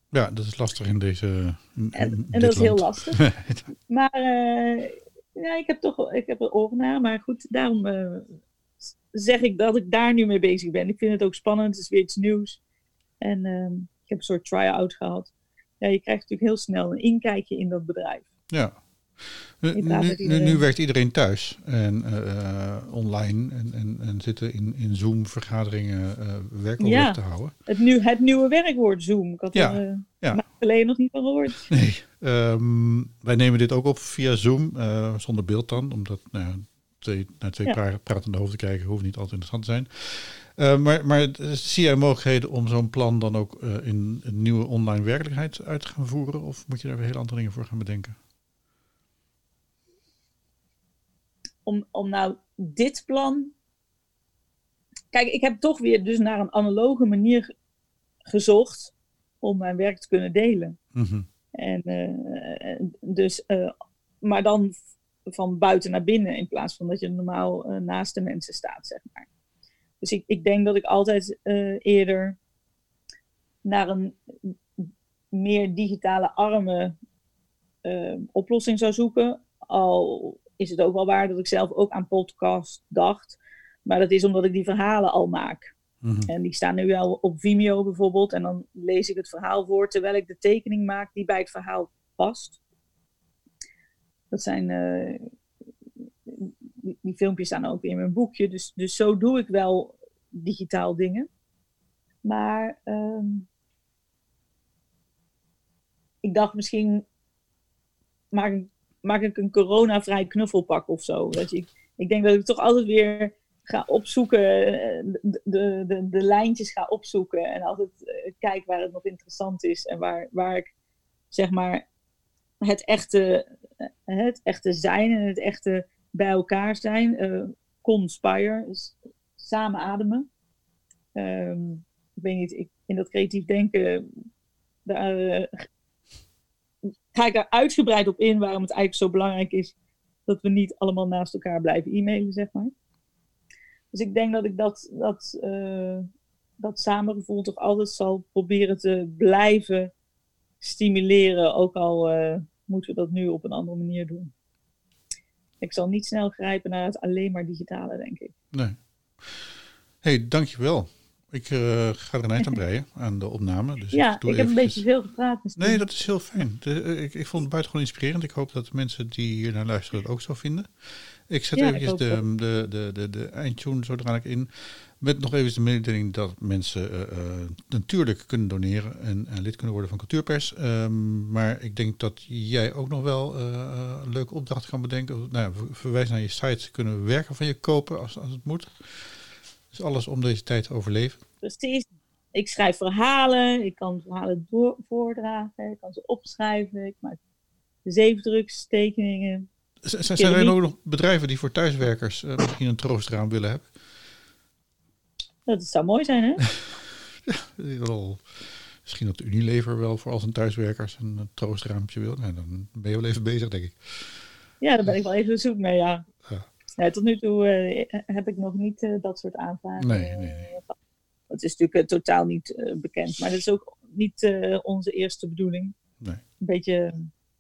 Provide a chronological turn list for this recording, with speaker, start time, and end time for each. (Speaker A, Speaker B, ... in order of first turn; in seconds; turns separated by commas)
Speaker A: 0.1-3.6, Speaker B: 1.9-3.2, Speaker B: 3.9-8.3, Speaker B: 8.9-12.6, Speaker B: 13.2-18.3, Speaker A: 18.5-27.5, Speaker B: 19.7-20.6, Speaker B: 26.8-31.7, Speaker A: 29.5-30.4, Speaker A: 31.7-48.2, Speaker B: 51.7-53.5, Speaker B: 55.1-57.5, Speaker B: 58.3-60.8, Speaker A: 61.0-61.3, Speaker B: 61.6-64.8, Speaker B: 65.3-69.3, Speaker B: 70.0-72.4, Speaker B: 73.6-74.5, Speaker B: 75.3-77.0, Speaker B: 77.8-85.7, Speaker A: 86.0-86.3, Speaker B: 86.3-92.6, Speaker B: 94.3-95.3, Speaker B: 96.3-101.3, Speaker B: 102.2-103.5, Speaker B: 106.2-107.0, Speaker B: 108.3-120.7, Speaker B: 121.3-121.8, Speaker B: 122.6-123.5, Speaker B: 124.1-130.3, Speaker B: 131.2-134.1, Speaker B: 134.8-135.5, Speaker B: 137.1-139.7, Speaker B: 140.3-142.7, Speaker B: 143.9-146.1, Speaker B: 146.6-149.9, Speaker B: 150.6-154.3, Speaker B: 155.6-158.3, Speaker A: 158.5-164.8, Speaker B: 163.9-165.9, Speaker A: 165.6-191.2, Speaker B: 171.6-172.2, Speaker B: 191.4-197.2, Speaker B: 197.8-199.5, Speaker A: 199.8-203.7, Speaker B: 200.2-200.6, Speaker B: 205.5-206.5, Speaker A: 207.3-214.2, Speaker B: 214.6-216.1, Speaker B: 216.8-220.8, Speaker A: 219.8-220.5, Speaker B: 221.3-225.8, Speaker B: 226.4-227.1